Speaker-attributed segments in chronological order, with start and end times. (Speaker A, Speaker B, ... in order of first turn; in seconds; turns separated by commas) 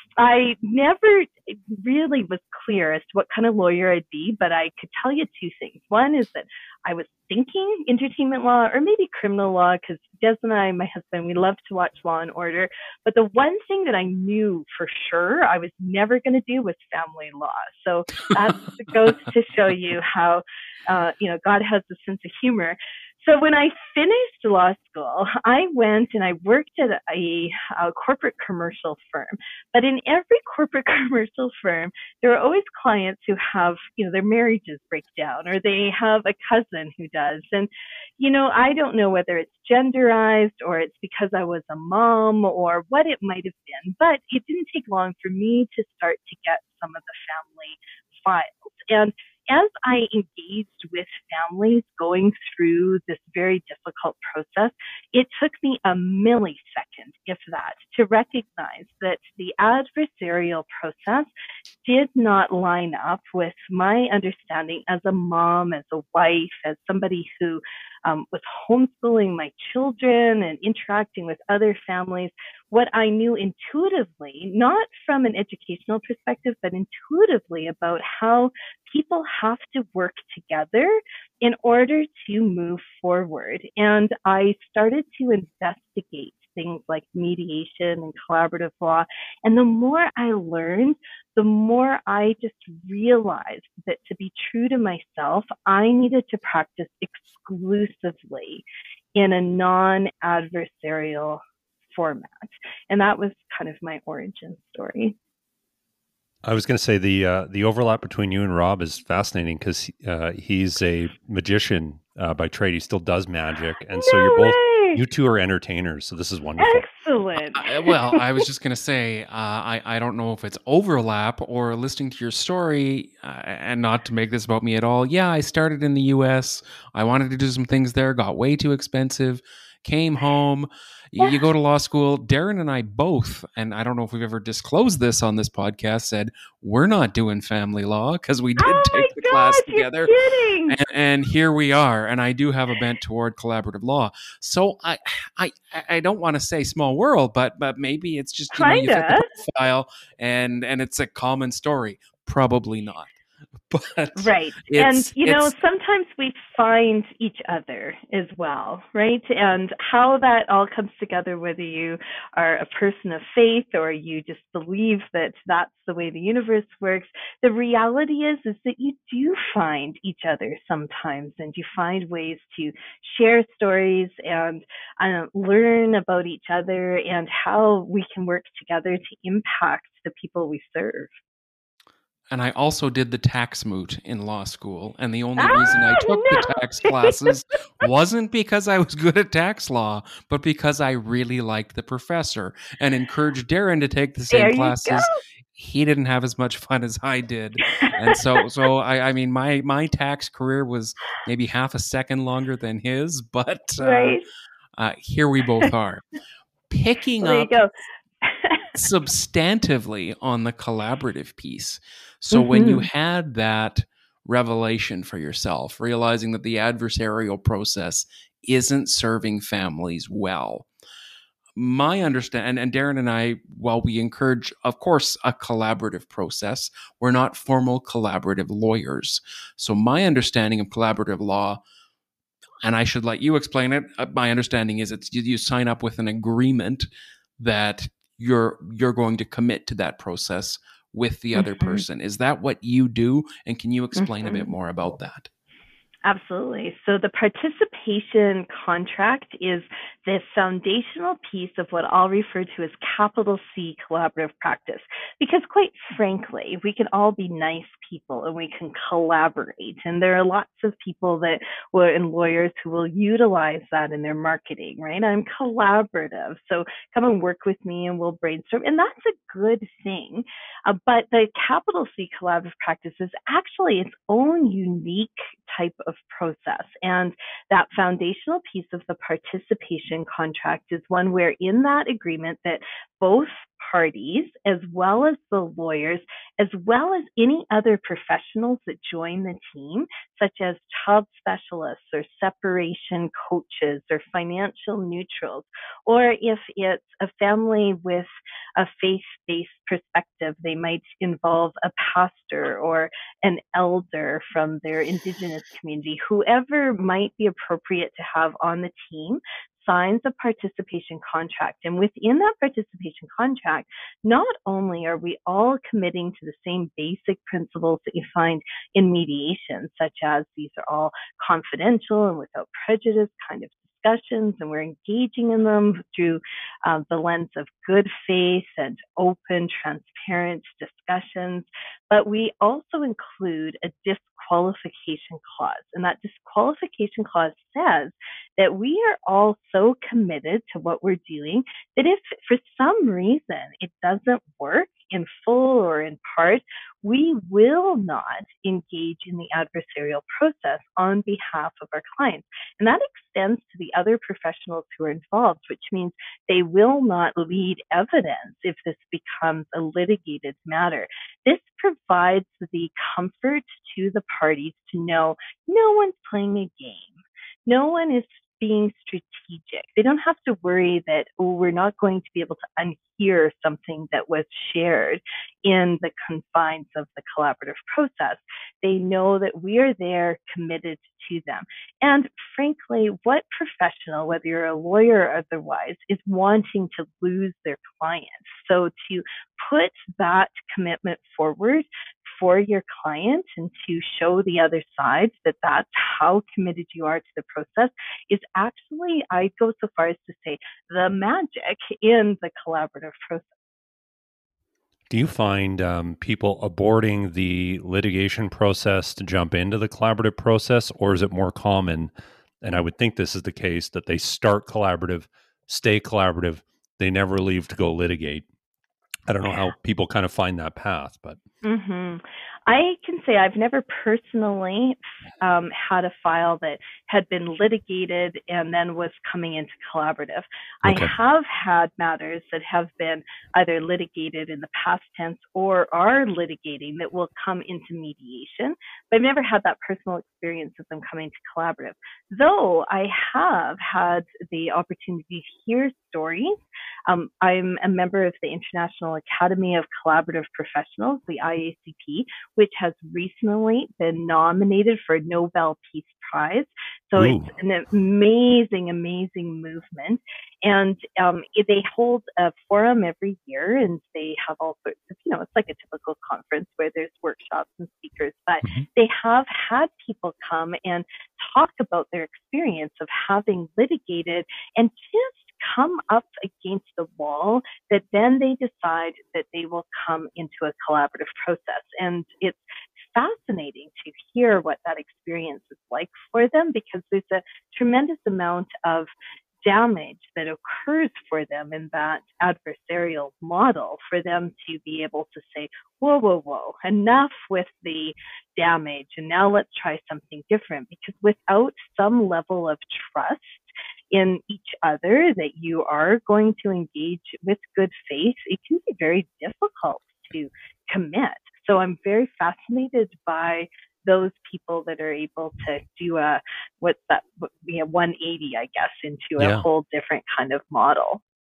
Speaker A: 0.2-61.3, Speaker A: 61.8-105.2, Speaker B: 106.4-116.8, Speaker A: 114.0-115.0, Speaker A: 116.6-118.4, Speaker C: 117.5-140.1, Speaker A: 138.6-140.8, Speaker C: 140.7-153.2, Speaker A: 148.5-149.3, Speaker C: 153.7-155.5, Speaker A: 154.2-181.1, Speaker C: 182.3-204.2, Speaker A: 185.4-187.1, Speaker A: 194.3-195.2, Speaker A: 203.8-204.2, Speaker C: 204.8-206.0, Speaker C: 206.7-207.5, Speaker A: 207.2-207.7, Speaker A: 208.2-208.7, Speaker C: 208.8-220.7, Speaker A: 212.3-212.9, Speaker C: 221.6-231.6, Speaker C: 232.6-236.9, Speaker C: 237.4-245.3, Speaker A: 241.4-241.8, Speaker A: 244.0-244.5, Speaker A: 246.0-403.3, Speaker B: 404.9-418.2, Speaker B: 419.1-421.2, Speaker A: 421.4-446.4, Speaker B: 430.6-430.9, Speaker A: 446.9-488.9, Speaker B: 457.0-457.3, Speaker A: 489.4-521.0, Speaker B: 519.2-519.5